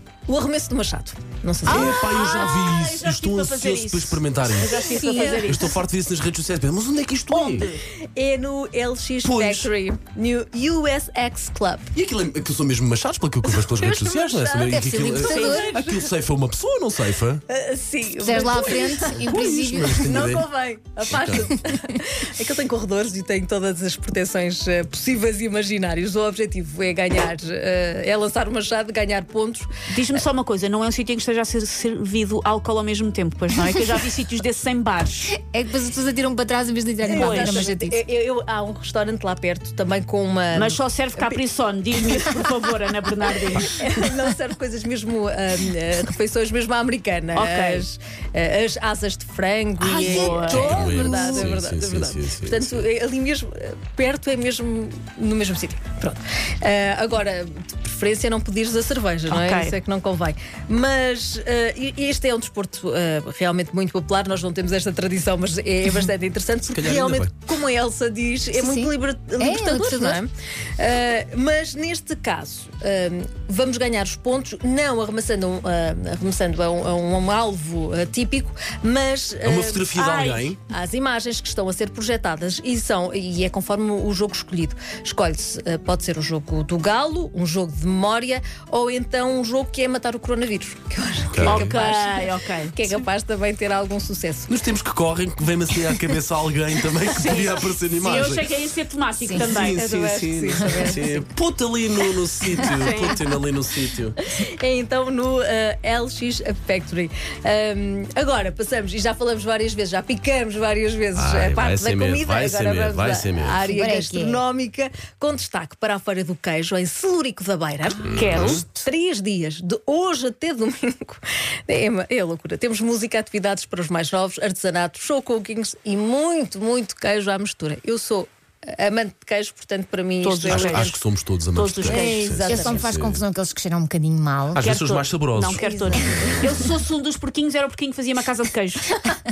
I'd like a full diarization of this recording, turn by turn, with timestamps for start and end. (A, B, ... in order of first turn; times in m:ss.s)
0:00.3-0:02.1 A
0:01.6-0:07.7 B
0:01.7-0:02.0 C
0:01.7-0:05.8 D
0:04.6-0:05.6 A
0:07.3-0:11.9 A
0:07.4-0:07.8 D
0:09.2-0:09.7 B
0:11.9-0:17.4 B
0:13.4-0:16.0 A
0:14.7-0:15.7 C
0:15.2-0:15.9 D
0:17.5-0:29.7 A
0:18.2-0:20.2 C
0:19.4-0:20.4 B
0:21.1-0:21.5 B
0:29.9-0:35.3 D
0:35.3-0:38.0 C
0:37.0-0:41.4 A
0:37.1-0:37.7 D
0:40.5-0:43.8 D
0:42.0-0:42.5 A
0:43.5-1:19.9 A
0:47.3-0:47.8 D
0:49.8-0:51.3 D
0:50.1-0:52.8 B
0:59.3-0:59.7 D
1:06.7-1:07.3 B
1:08.5-1:10.2 C
1:19.4-1:20.6 B
1:19.9-1:20.5 D
1:20.7-1:34.5 A
1:31.3-1:31.8 B
1:31.4-1:33.0 D
1:34.5-1:38.5 B
1:37.0-1:39.8 D
1:39.2-1:39.6 C
1:39.3-1:44.2 B
1:39.6-1:41.0 A
1:42.6-1:43.4 D
1:44.2-2:11.0 A
1:51.1-1:53.6 B
1:53.6-1:54.4 C
1:58.0-1:58.6 B
1:58.1-1:58.7 D
2:10.2-2:10.9 D
2:10.4-2:13.2 B
2:11.5-2:12.3 D
2:11.8-2:14.6 C
2:12.2-2:12.9 A
2:14.5-2:16.7 B
2:14.6-2:19.0 D
2:15.5-2:16.5 A